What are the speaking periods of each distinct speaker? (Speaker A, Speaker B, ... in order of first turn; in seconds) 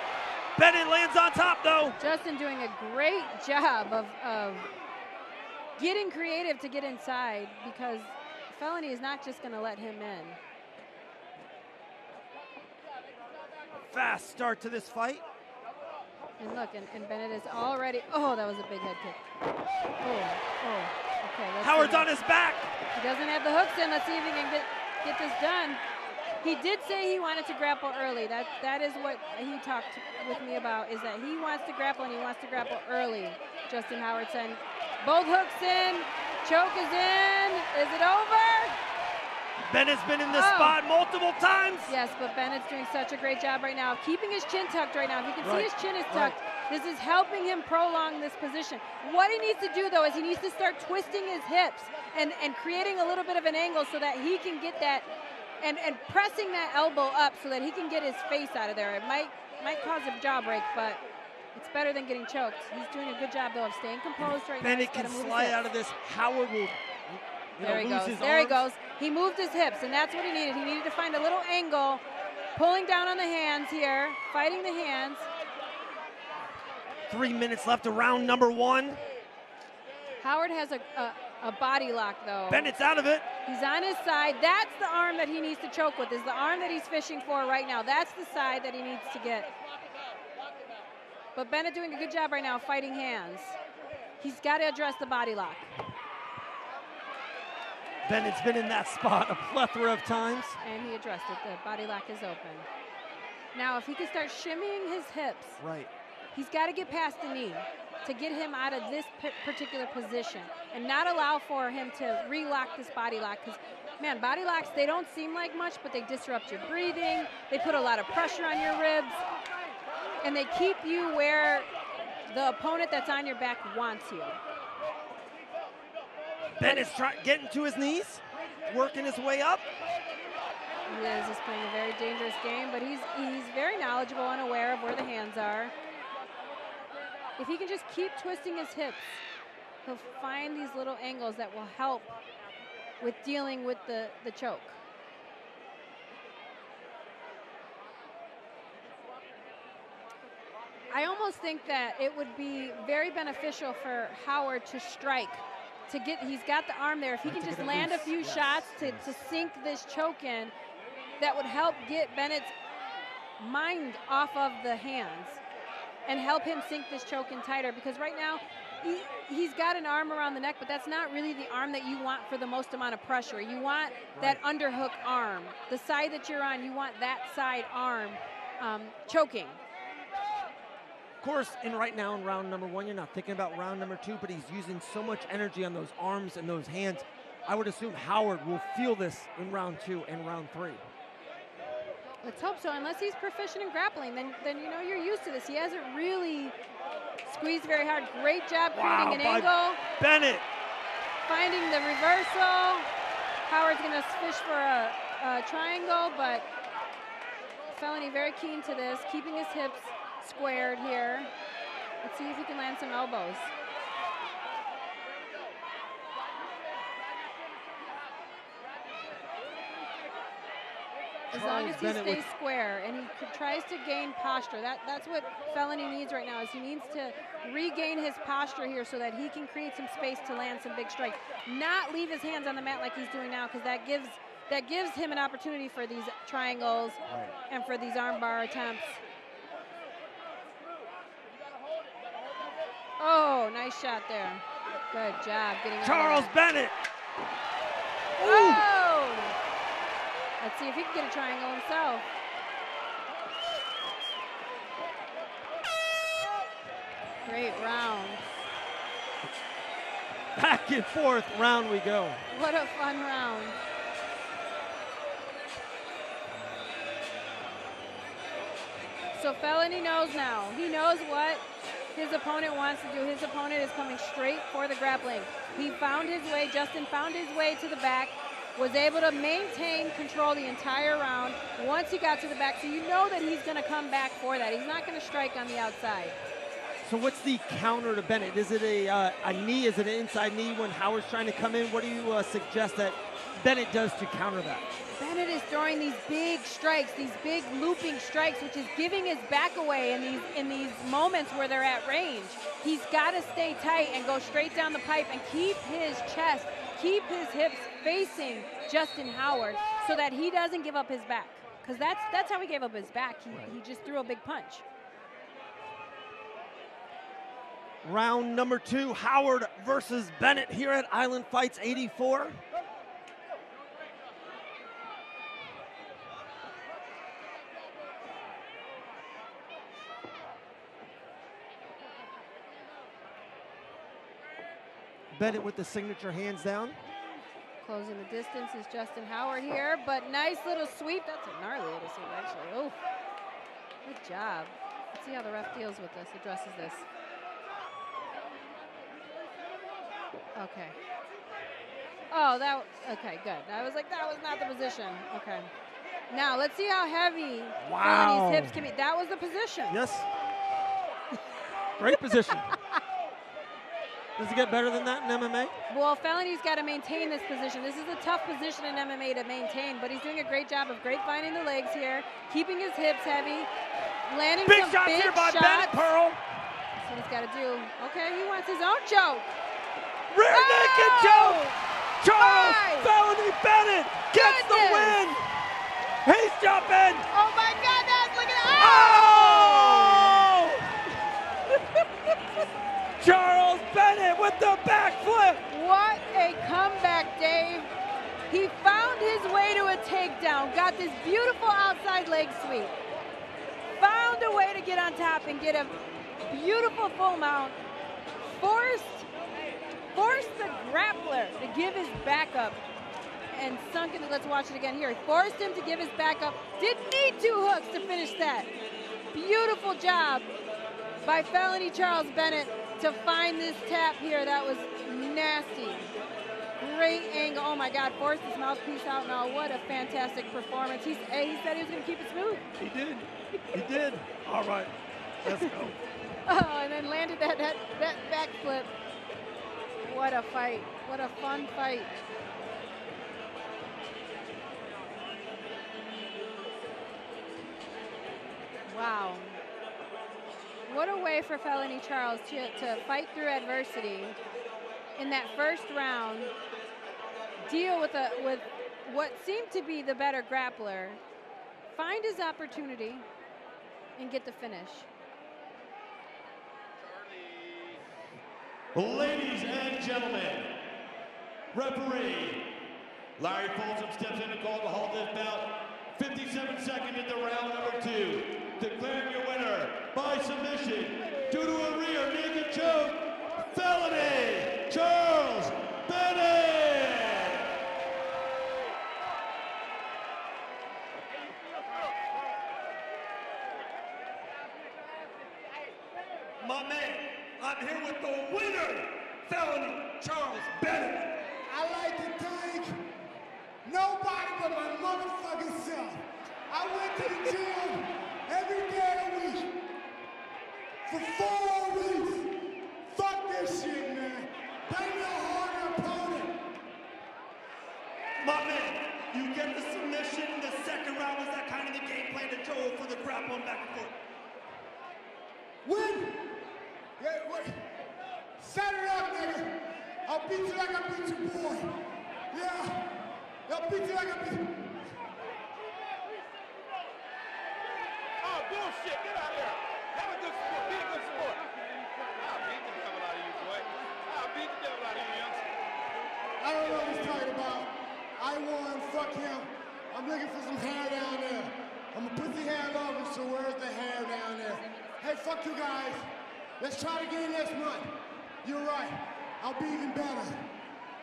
Speaker A: 0.6-2.0, 13.9-15.2, 21.6-22.7, 39.6-41.9, 45.4-46.4, 64.6-68.6, 77.1-79.0, 82.5-83.3, 98.0-100.6, 105.6-105.9, 126.6-129.7, 157.2-159.2, 174.2-174.4, 181.2-190.8, 198.7-200.4, 221.3-222.3, 237.1-237.3, 245.8-246.8, 248.2-248.7, 260.4-262.2, 286.8-294.7, 317.8-322.4, 335.1-336.8, 357.6-358.6, 359.7-360.1, 361.8-362.5, 364.2-365.5, 374.4-376.2, 380.1-381.5, 382.0-385.3, 386.0-387.1, 388.6-390.7, 393.0-395.4, 432.6-434.7, 435.2-435.8, 496.4-501.1, 518.2-524.0
Speaker B: 2.0-4.7, 5.8-10.4, 16.4-19.2, 20.0-22.1, 22.9-25.8, 26.4-38.8, 40.3-40.8, 41.9-55.1, 55.6-61.0, 61.5-65.6, 67.6-75.3, 80.2-82.8, 83.5-89.5, 91.3-93.6, 94.2-95.7, 100.6-102.7, 103.5-105.6, 106.3-119.2, 120.2-121.7, 122.3-124.4, 130.9-135.7, 137.4-139.2, 139.8-142.1, 143.0-144.8, 150.9-160.5, 161.2-162.5, 163.4-165.4, 166.1-179.6, 192.2-196.6, 197.2-199.8, 201.2-202.9, 203.4-206.4, 207.7-211.3, 212.0-213.5, 221.3-239.0, 243.0-246.3, 248.2-249.4, 250.4-252.1, 257.2-258.3, 262.3-263.6, 269.1-286.2, 294.9-314.6, 337.6-342.8, 343.8-346.9, 350.4-350.8, 352.1-355.5, 356.1-359.8, 365.7-373.5, 374.1-375.7, 376.8-379.3, 380.3-382.9, 384.1-385.1, 387.1-390.2, 395.5-397.7, 398.3-402.7, 403.8-407.6, 408.3-409.1, 409.9-412.6, 413.3-418.5, 419.1-420.3, 421.0-425.9, 426.6-432.4, 435.3-435.5, 436.2-438.7, 439.8-442.0, 448.7-449.4, 450.6-454.2, 455.0-456.3, 457.4-461.0, 461.7-463.1, 464.0-464.9
Speaker C: 468.7-470.6, 471.5-487.5
Speaker D: 501.5-502.8, 503.6-509.6, 510.9-516.4, 525.6-526.4, 527.0-527.7, 528.4-532.9, 533.5-534.7, 546.4-556.1, 556.6-560.5
Speaker E: 538.7-539.0, 540.2-541.0, 542.4-543.6, 544.4-545.4